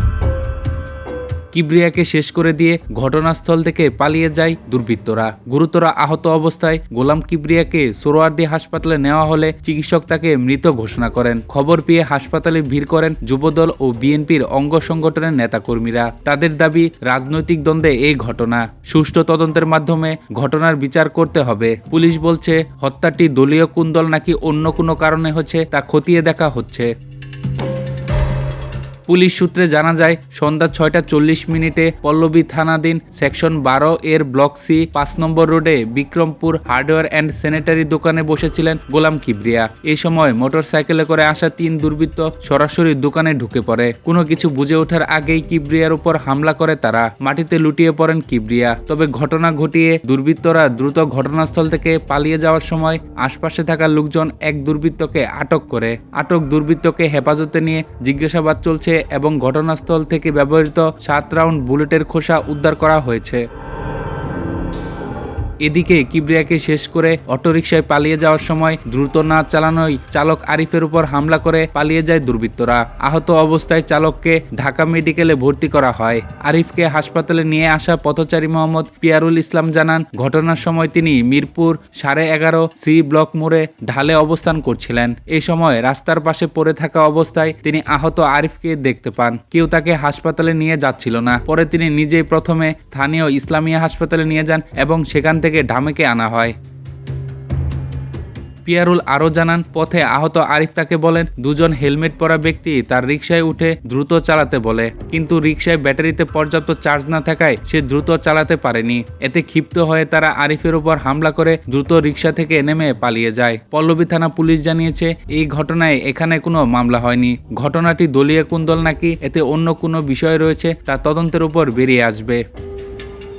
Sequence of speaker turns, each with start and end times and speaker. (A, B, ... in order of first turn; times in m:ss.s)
0:01.5-0:26.9 A
0:29.1-1:03.4 A
1:05.6-1:36.6 A
1:38.6-2:02.4 A